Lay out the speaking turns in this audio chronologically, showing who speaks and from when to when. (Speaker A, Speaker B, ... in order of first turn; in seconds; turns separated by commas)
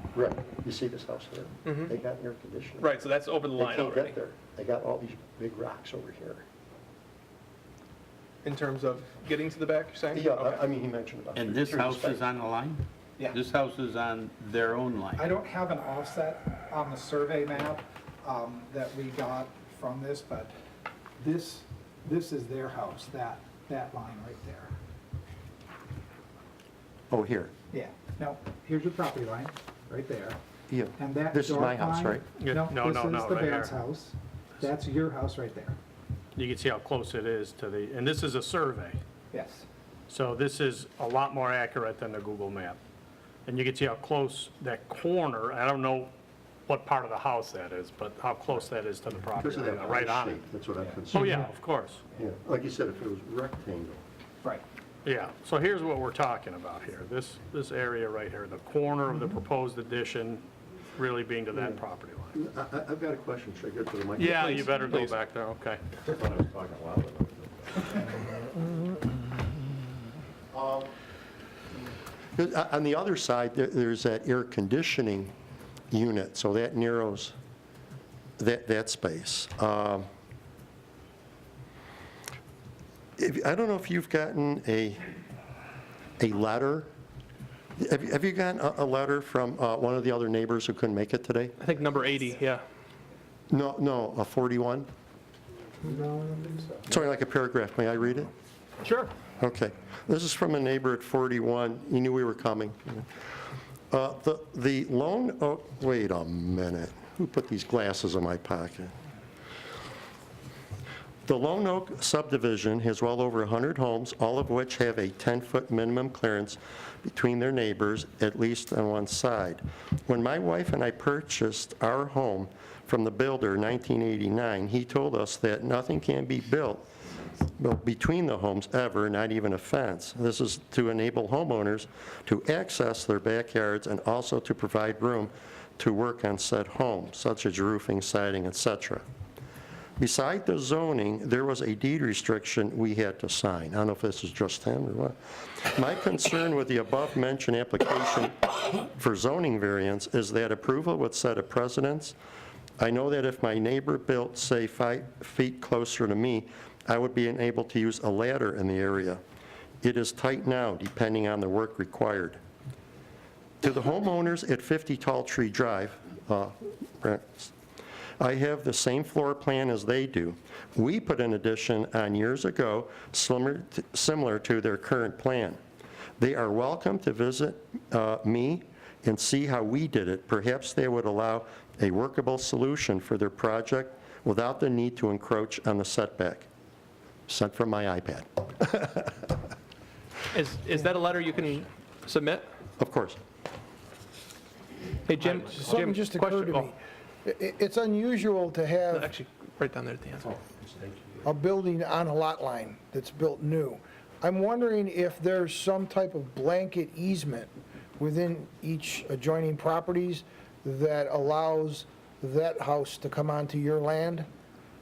Speaker A: 0.1-3.0, Speaker B: 1.7-1.9, Speaker B: 2.8-4.2, Speaker A: 3.5-6.4, Speaker B: 8.4-10.6, Speaker A: 10.1-12.2, Speaker C: 11.4-15.5, Speaker D: 15.2-20.5, Speaker D: 21.2-24.7, Speaker A: 27.1-27.5, Speaker D: 27.7-30.4, Speaker A: 30.7-32.3, Speaker D: 31.0-35.8, Speaker E: 32.4-33.8, Speaker E: 36.4-39.0, Speaker D: 39.3-39.6, Speaker E: 40.1-42.8, Speaker E: 43.5-46.1, Speaker E: 46.7-50.4, Speaker A: 49.4-51.5, Speaker E: 51.1-52.0, Speaker A: 52.1-54.0, Speaker E: 55.0-62.4, Speaker A: 62.3-64.9, Speaker E: 64.2-65.8, Speaker B: 64.3-65.1, Speaker A: 66.1-68.1, Speaker A: 70.5-70.9, Speaker A: 72.4-75.3, Speaker A: 75.9-77.3, Speaker A: 78.4-80.1, Speaker A: 83.2-85.1, Speaker A: 86.2-86.9, Speaker A: 87.8-91.6, Speaker B: 91.6-92.6, Speaker A: 93.5-94.9, Speaker F: 95.9-96.5, Speaker A: 96.9-98.3, Speaker E: 98.8-99.1, Speaker A: 99.4-103.1, Speaker A: 103.9-108.9, Speaker A: 111.3-126.8, Speaker A: 127.6-139.0, Speaker A: 140.0-152.2, Speaker A: 152.8-159.2, Speaker A: 159.8-162.4, Speaker A: 163.6-167.5, Speaker A: 168.2-175.6, Speaker A: 176.2-186.5, Speaker A: 187.3-189.1, Speaker B: 190.3-192.4, Speaker A: 192.8-193.2, Speaker B: 195.1-196.7, Speaker F: 195.2-199.1, Speaker B: 198.9-200.3, Speaker A: 200.4-201.1, Speaker F: 201.2-214.3